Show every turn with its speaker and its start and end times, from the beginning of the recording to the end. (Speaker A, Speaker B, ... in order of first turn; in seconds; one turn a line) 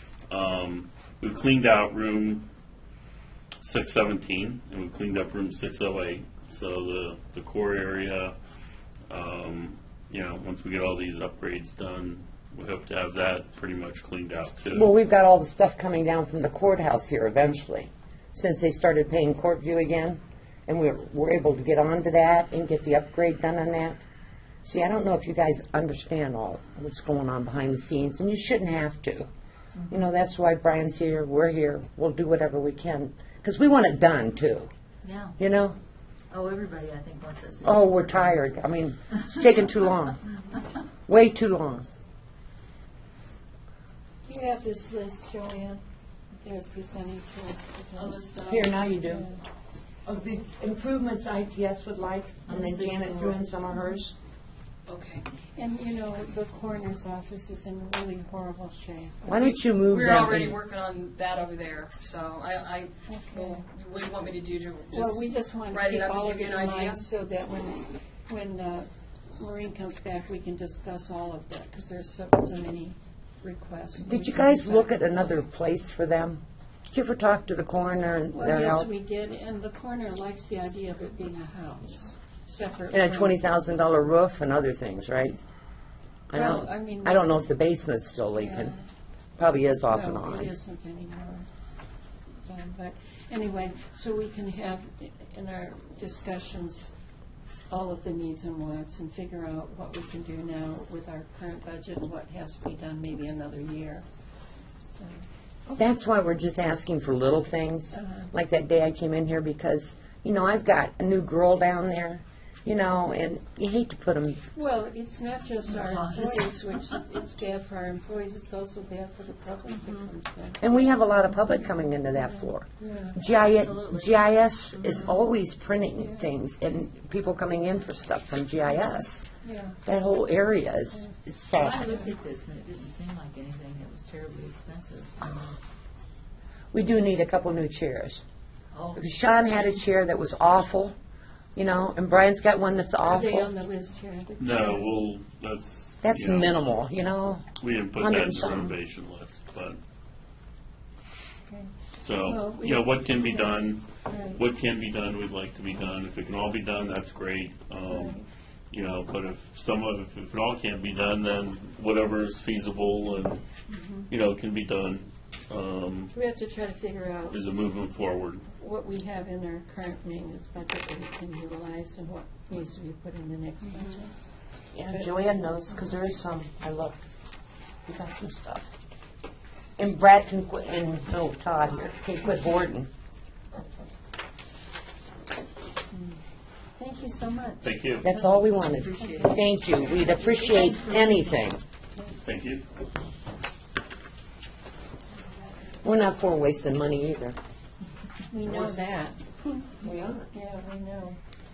Speaker A: 0.3-2.5
Speaker A: 3.6-8.3
Speaker A: 9.1-14.9
Speaker B: 14.7-24.0
Speaker B: 24.6-29.3
Speaker B: 29.9-34.7
Speaker C: 35.0-35.4
Speaker B: 35.4-35.8
Speaker C: 36.3-38.3
Speaker B: 37.6-40.2
Speaker B: 41.1-41.9
Speaker D: 44.3-45.8
Speaker D: 46.4-48.2
Speaker E: 48.0-48.8
Speaker B: 48.5-49.3
Speaker D: 49.1-49.4
Speaker B: 50.1-54.1
Speaker C: 52.5-53.4
Speaker E: 54.9-55.2
Speaker D: 55.6-59.6
Speaker B: 59.3-60.6
Speaker E: 59.4-67.1
Speaker D: 63.1-63.6
Speaker D: 64.9-75.3
Speaker B: 74.0-78.9
Speaker D: 78.3-83.4
Speaker B: 82.9-85.4
Speaker B: 86.3-88.7
Speaker D: 86.3-87.3
Speaker D: 88.4-88.8
Speaker B: 89.4-90.5
Speaker D: 89.9-91.5
Speaker D: 92.5-96.9
Speaker D: 97.7-104.0
Speaker D: 104.9-105.2
Speaker B: 105.8-114.4
Speaker D: 107.9-108.3
Speaker D: 114.5-120.6
Speaker C: 115.7-116.5
Speaker B: 120.6-129.2
Speaker D: 122.3-123.2
Speaker D: 126.0-126.3
Speaker D: 129.4-129.8
Speaker B: 129.8-131.9
Speaker C: 131.5-135.6
Speaker B: 136.7-138.2
Speaker C: 138.7-139.1
Speaker B: 139.0-140.9
Speaker B: 141.6-143.5
Speaker D: 143.0-145.0
Speaker A: 144.4-146.6
Speaker B: 146.0-147.4
Speaker A: 147.6-149.8
Speaker B: 148.0-148.7
Speaker D: 151.5-154.4
Speaker A: 152.0-163.4
Speaker D: 157.9-158.2
Speaker A: 164.1-166.1
Speaker D: 166.1-167.4
Speaker A: 167.3-168.5
Speaker D: 168.6-174.1
Speaker B: 174.7-177.0
Speaker B: 177.9-178.7
Speaker B: 179.8-182.9
Speaker D: 186.8-187.7
Speaker A: 187.6-188.1
Speaker B: 188.0-191.6
Speaker C: 188.5-191.4
Speaker D: 189.0-189.3
Speaker A: 192.2-192.6
Speaker B: 195.8-197.4
Speaker D: 198.3-199.6
Speaker B: 199.8-200.3
Speaker D: 200.3-201.2